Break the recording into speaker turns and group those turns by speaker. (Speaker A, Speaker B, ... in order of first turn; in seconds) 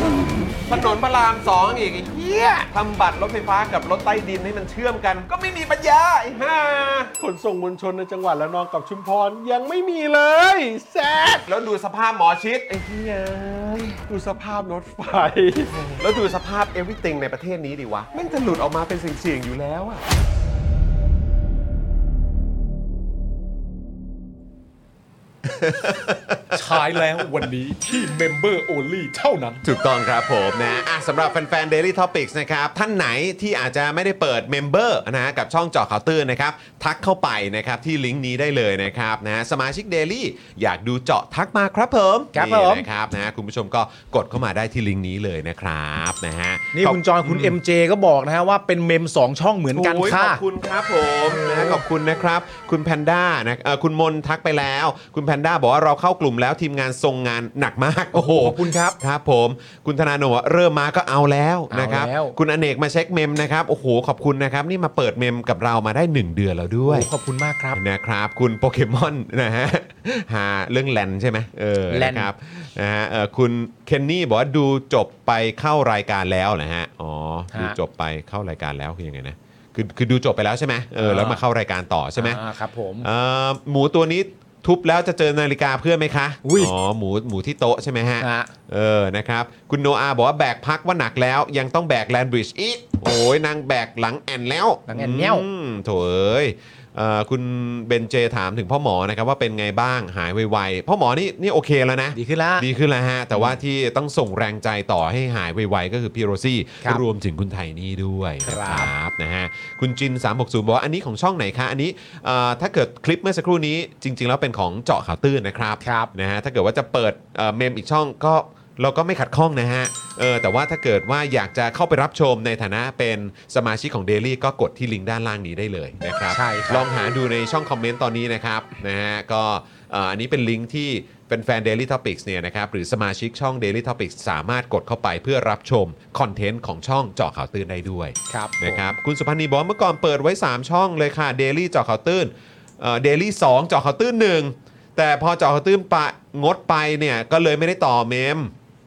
Speaker A: 0.7-7.1, 11.4-14.0, 15.7-20.0, 25.4-27.0, 29.6-47.6, 49.7-67.1, 67.8-82.4, 83.0-148.5
Speaker B: 7.2-11.0, 14.8-15.4
Speaker C: 26.5-29.6, 42.3-42.9, 46.7-50.4, 51.3-51.8, 58.1-59.0, 61.7-62.4, 66.8-67.8, 71.9-72.3, 77.5-77.8, 81.0-81.4, 82.2-83.1, 86.4-86.7, 88.2-88.5, 94.9-95.5, 102.1-102.7, 108.4-108.9, 115.8-116.1, 126.3-126.9, 138.3-138.9